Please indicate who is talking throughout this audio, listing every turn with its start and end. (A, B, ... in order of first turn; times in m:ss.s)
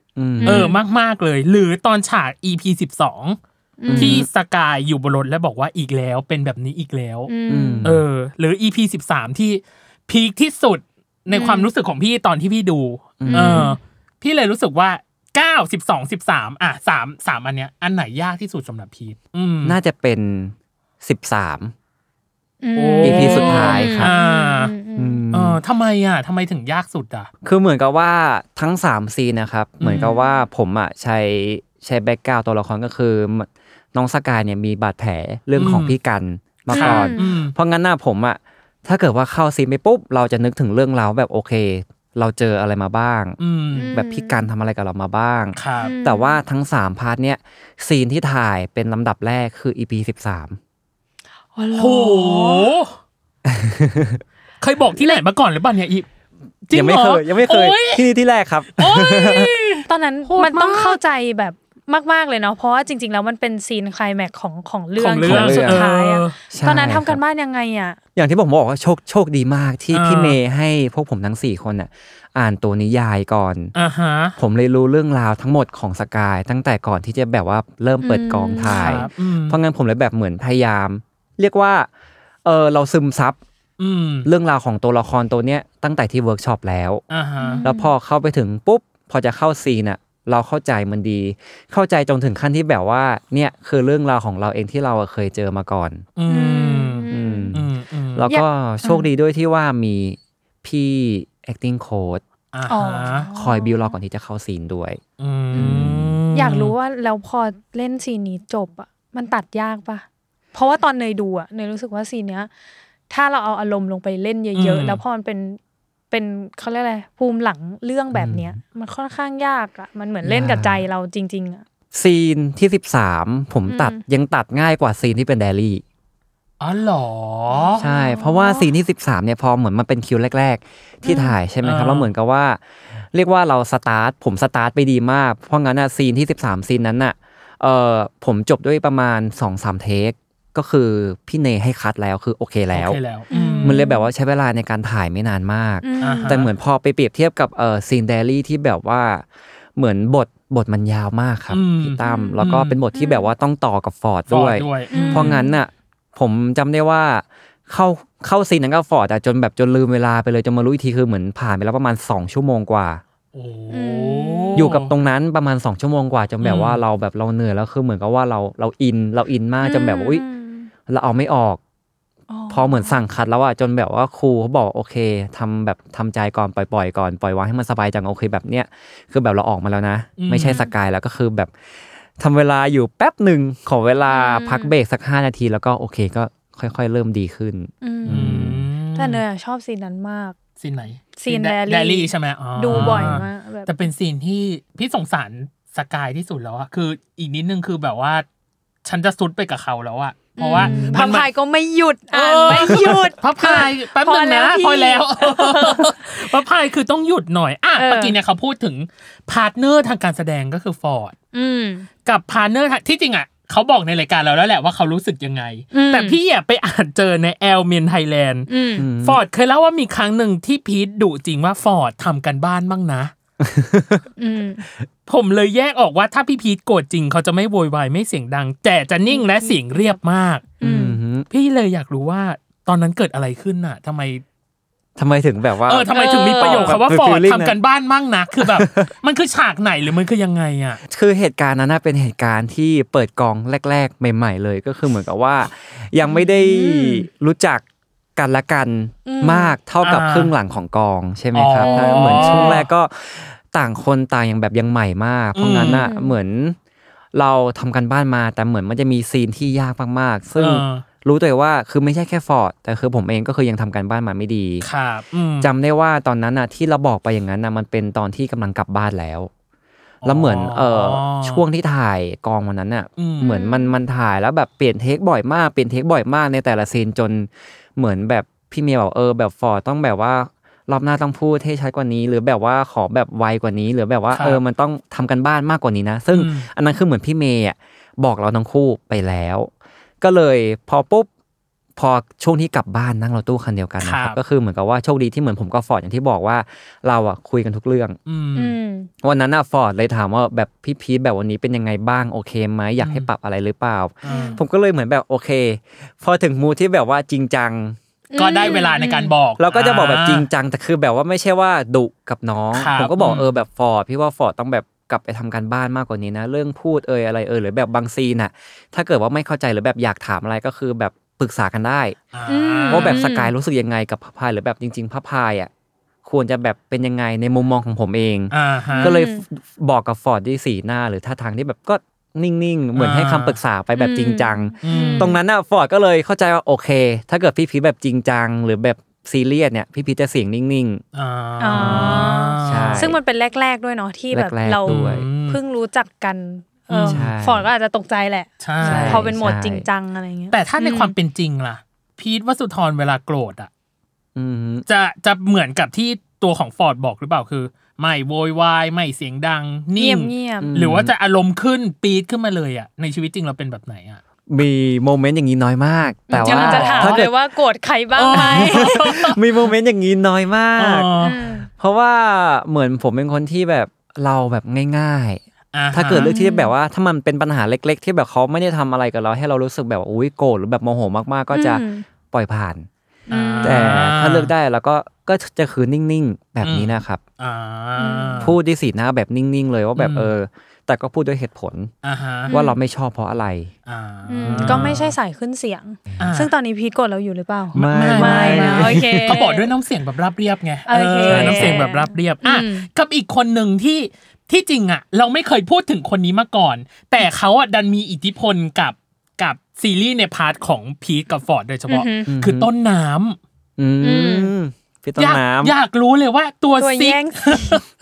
0:00.2-0:00.7 A
0:00.4-0:00.8 B
0:00.4-0:03.4 C
0:03.8-0:04.2 B
0:03.9-0:04.3 A
0:04.0-0:07.3 C
0:07.3-0:07.9 B
0:07.5-0:08.0 A
0:07.8-0:19.8 C
0:11.3-0:11.7 B
0:13.2-0:13.7 A
0:13.2-0:13.8 B
0:19.6-0:21.7 A
0:22.6-0:25.2 B
0:22.8-0:24.7 C
0:23.0-0:24.1 A
0:25.0-0:25.6 A
0:25.3-0:27.3 C
0:27.4-0:43.4 A
0:29.8-0:30.2 C
0:35.6-0:36.0 C
0:36.7-0:37.6 C
0:36.7-0:37.2 B
0:43.4-0:43.9 C
0:43.7-0:44.4 B
0:43.9-0:50.6 A
0:45.6-0:45.9 C
0:45.8-0:46.4 B
0:51.6-0:52.7 B
0:51.8-0:53.0 C
0:53.4-0:54.2 A
0:54.6-0:56.1 C
0:56.7-0:58.1 C
0:56.7-0:59.5 A
0:58.8-1:01.0 C
0:59.9-1:08.0 B
1:05.0-1:06.4 C
1:05.2-1:05.9 A
1:06.5-1:07.2 A
1:08.2-1:13.7 A
1:09.9-1:10.4 C
1:13.8-1:14.4 C
1:14.4-1:21.9 A
1:18.0-1:18.9 B
1:18.7-1:19.6 C
1:22.4-1:23.4 A
1:23.8-1:24.3 C
1:24.2-1:27.0 A
1:27.1-1:27.6 C
1:27.4-1:27.9 B
1:27.6-1:36.0 A
1:36.2-1:38.3 C
1:36.3-1:37.6 B
1:37.1-1:42.2 A
1:38.3-1:39.1 B
1:42.5-1:43.3 C
1:42.7-1:43.9 B
1:43.3-1:45.0 A
1:45.2-1:46.7 C
1:45.5-1:46.2 A
1:45.5-1:52.5 B
1:53.1-1:55.6 B
1:54.6-1:55.0 C
1:56.1-2:01.6 B
1:58.1-1:58.6 A
2:00.2-2:00.8 A
2:01.9-2:05.8 A
2:03.7-2:04.0 B
2:06.6-2:07.8 C
2:07.5-2:08.7 B
2:07.8-2:12.6 A
2:11.0-2:11.4 B
2:11.6-2:12.1 C
2:13.1-2:23.0 A
2:22.7-2:23.8 C
2:23.3-2:24.1 B
2:23.6-2:43.0 A
2:25.8-2:26.4 B
2:26.0-2:26.5 C
2:31.5-2:32.8 C
2:32.0-2:33.3 B
2:34.3-2:35.4 C
2:34.9-2:35.6 B
2:43.3-2:44.9 C
2:43.7-2:44.7 B
2:44.6-2:50.2 A
2:46.4-2:46.8 C
2:49.6-2:50.7 B
2:50.9-2:51.6 A
2:52.3-2:53.0 B
2:52.5-3:01.5 A
3:00.2-3:00.6 C
3:02.2-3:08.6 A
3:04.1-3:04.7 B
3:07.8-3:08.4 B
3:08.1-3:09.2 C
3:09.0-3:10.4 B
3:10.6-3:18.2 C
3:11.2-3:13.9 B
3:12.7-3:13.2 A
3:18.8-3:21.3 C
3:20.4-3:26.0 B
3:20.6-3:21.0 A
3:22.1-3:31.2 C
3:22.7-3:23.0 A
3:27.8-3:28.2 B
3:31.3-3:31.9 B
3:32.0-3:38.5 C
3:35.7-3:36.2 B
3:38.5-3:38.9 B
3:38.8-3:39.2 A
3:39.0-3:43.1 C
3:43.4-3:44.0 A
3:44.2-3:44.7 B
3:45.1-3:50.5 C
3:49.1-3:49.9 B
3:50.6-3:51.0 B
3:50.6-3:51.3 A
3:51.3-3:54.2 C
3:55.0-3:57.6 A
3:55.7-4:00.8 C
3:55.9-3:56.8 B
3:58.4-3:58.9 A
4:00.8-4:07.6 A
4:06.0-4:07.1 B
4:08.2-4:16.6 A
4:09.0-4:09.6 B
4:09.8-4:10.3 C
4:11.3-4:12.7 C
4:11.6-4:12.6 B
4:15.4-4:15.9 C
4:15.7-4:16.1 B
4:17.1-4:24.7 A
4:20.4-4:20.8 C
4:24.6-4:25.5 C
4:25.4-4:29.3 A
4:30.0-4:31.4 C
4:30.0-4:49.5 A
4:33.0-4:33.3 C
4:33.2-4:33.8 B
4:44.1-4:44.4 C
4:46.1-4:46.5 C
4:50.0-4:51.1 A
4:51.8-4:58.0 A
4:53.8-4:54.2 C
4:58.1-4:58.6 C
4:58.4-4:58.9 B
4:59.0-5:07.8 A
5:02.8-5:03.1 C
5:04.0-5:04.4 C
5:04.1-5:04.4 B
5:08.1-5:09.1 B
5:08.2-5:10.3 C
5:09.4-5:22.0 A
5:12.5-5:13.3 C
5:22.1-5:23.0 C
5:22.3-5:23.3 B
5:22.7-5:25.5 A
5:26.0-5:40.8 A
5:28.3-5:29.0 C
5:28.7-5:29.2 B
5:32.8-5:33.4 C
5:33.8-5:35.2 B
5:34.6-5:35.1 C
5:40.9-5:42.9 C
5:41.4-5:50.9 B
5:41.5-5:43.0 A
5:44.1-5:45.1 A
5:44.6-5:45.4 C
5:46.7-5:47.1 C
5:46.9-5:47.5 A
5:48.4-5:49.1 C
5:48.6-5:49.7 A
5:50.3-5:53.5 C
5:54.2-5:54.6 A
5:54.7-6:04.0 C
5:59.8-6:00.5 B
6:00.4-6:00.9 A
6:04.3-6:07.1 A
6:06.1-6:08.9 B
6:06.1-6:07.0 C
6:08.0-6:09.2 C
6:08.2-6:10.9 A
6:10.6-6:11.2 C
6:11.0-6:11.5 B
6:11.5-6:15.2 A
6:15.5-6:16.1 C
6:15.7-6:22.7 A
6:15.9-6:16.5 B
6:21.3-6:21.8 B
6:23.1-6:23.8 B
6:23.1-6:24.3 C
6:23.4-6:27.0 A
6:26.4-6:28.4 C
6:27.8-6:28.3 B
6:28.2-6:31.7 A
6:29.8-6:30.1 C
6:31.8-6:32.4 C
6:32.3-6:32.6 B
6:32.3-6:33.5 A
6:33.7-6:35.0 C
6:34.1-6:39.5 B
6:34.3-6:34.7 A
6:36.0-6:36.3 C
6:37.5-6:39.2 A
6:37.6-6:53.2 C
6:40.7-6:42.7 B
6:41.0-6:41.6 A
6:51.7-6:52.1 B
6:52.1-6:52.5 A
6:53.6-6:55.6 A
6:53.8-6:54.3 B
6:55.0-6:57.6 C
6:56.6-6:57.6 B